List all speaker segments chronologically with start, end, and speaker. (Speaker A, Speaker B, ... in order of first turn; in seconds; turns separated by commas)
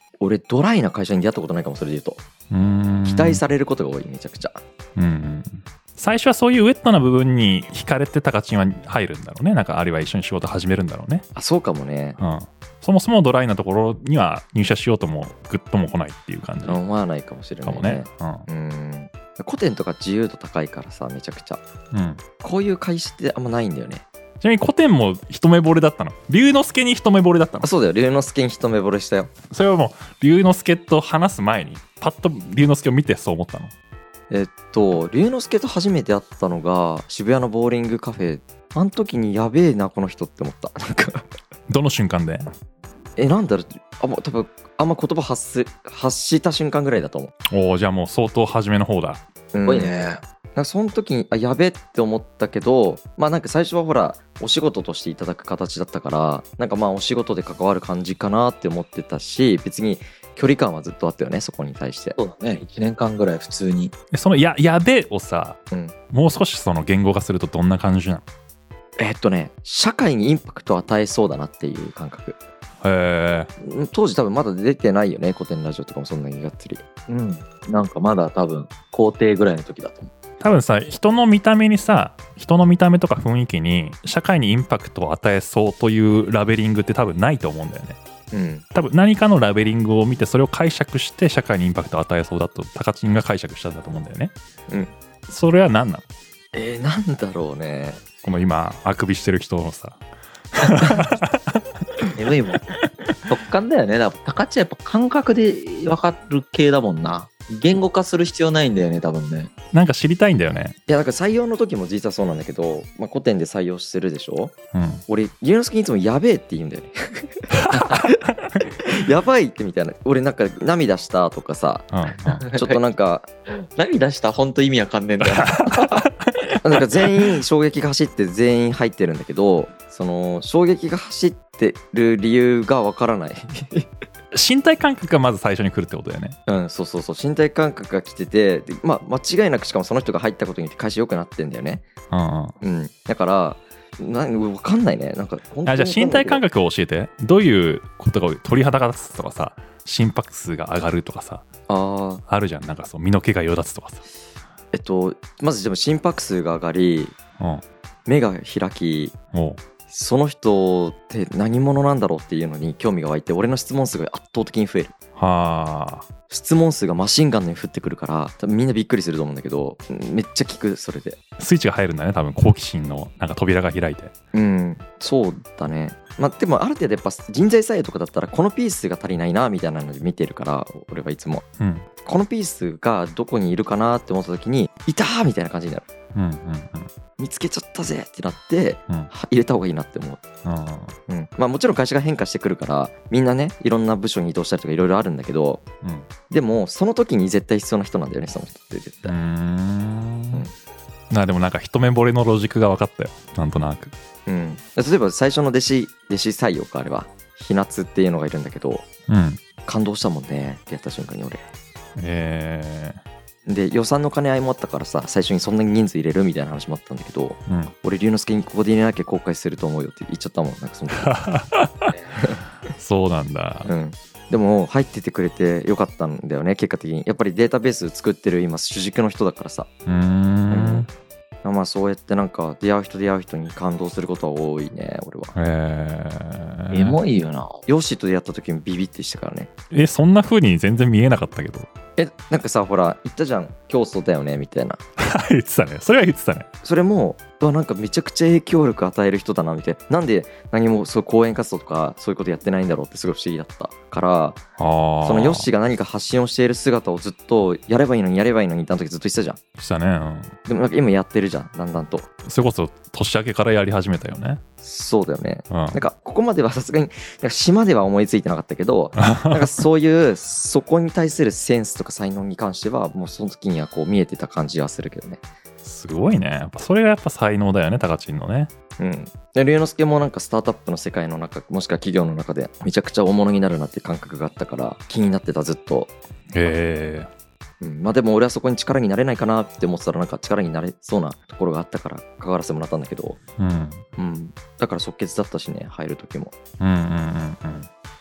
Speaker A: 0.2-2.2, Speaker B: 2.5-3.4, Speaker A: 3.0-4.6, Speaker B: 5.0-11.2, Speaker A: 11.3-12.2, Speaker B: 12.2-16.8, Speaker A: 16.6-21.6, Speaker B: 17.6-18.4, Speaker B: 21.9-22.2, Speaker A: 22.4-24.1, Speaker B: 24.4-27.7, Speaker A: 27.6-29.3, Speaker B: 29.5-33.7, Speaker A: 34.3-41.3, Speaker B: 41.7-42.5, Speaker A: 43.2-47.3, Speaker B: 47.5-49.2, Speaker A: 49.5-62.2, Speaker C: 49.7-50.2, Speaker C: 62.2-63.9, Speaker B: 64.1-65.6, Speaker B: 66.1-68.2, Speaker A: 69.0-72.4, Speaker B: 72.8-73.5, Speaker A: 73.6-76.8, Speaker C: 77.1-80.1, Speaker B: 80.4-88.0, Speaker A: 88.3-88.6, Speaker B: 88.7-94.3, Speaker B: 95.3-96.0, Speaker A: 96.5-98.0, Speaker B: 98.2-100.0, Speaker B: 100.5-101.6, Speaker C: 102.2-102.6, Speaker C: 103.3-109.5, Speaker B: 109.7-110.8, Speaker A: 110.9-114.5, Speaker B: 114.7-115.0, Speaker A: 115.1-121.9, Speaker B: 121.9-122.5, Speaker C: 122.4-122.8, Speaker A: 122.5-123.3, Speaker C: 123.6-126.0, Speaker B: 125.2-126.6, Speaker A: 126.6-133.9, Speaker B: 134.3-136.4, Speaker A: 136.5-141.9, Speaker B: 142.1-142.5, Speaker A: 142.6-146.4, Speaker B: 145.7-151.5, Speaker A: 151.7-152.2, Speaker B: 152.3-154.0, Speaker A: 154.7-157.2, Speaker A: 158.1-159.2, Speaker B: 159.3-159.6, Speaker A: 159.9-164.9, Speaker B: 165.2-166.1, Speaker A: 166.3-171.2, Speaker B: 171.4-174.1, Speaker A: 174.3-181.4, Speaker B: 181.6-181.9, Speaker A: 182.0-185.8, Speaker B: 186.2-186.9, Speaker A: 187.2-190.2, Speaker B: 190.4-190.9, Speaker A: 191.1-195.7, Speaker A: 196.3-199.2, Speaker B: 199.1-200.4, Speaker B: 201.1-203.9, Speaker A: 204.3-208.9, Speaker B: 209.1-209.4, Speaker A: 209.7-211.4, Speaker B: 212.0-213.0, Speaker A: 213.5-221.2, Speaker B: 217.5-217.7, Speaker B: 221.0-221.9, Speaker A: 222.2-222.4, Speaker B: 222.7-223.7, Speaker A: 223.7-229.7, Speaker B: 229.9-230.9, Speaker A: 230.5-230.9, Speaker A: 231.4-235.3, Speaker B: 235.3-237.0, Speaker C: 236.7-237.6, Speaker A: 237.7-239.5, Speaker B: 239.7-241.7, Speaker A: 242.0-244.8, Speaker B: 245.1-246.5, Speaker A: 246.6-254.4, Speaker B: 254.6-255.5, Speaker A: 255.0-259.4, Speaker B: 259.6-260.3, Speaker A: 260.5-262.1, Speaker B: 262.2-264.4, Speaker A: 264.6-275.2, Speaker B: 265.5-265.8, Speaker B: 269.0-269.5, Speaker B: 275.6-278.5, Speaker A: 278.8-285.9, Speaker B: 286.3-287.1, Speaker A: 287.6-293.2, Speaker B: 293.4-293.8, Speaker A: 294.0-296.3, Speaker B: 296.6-297.7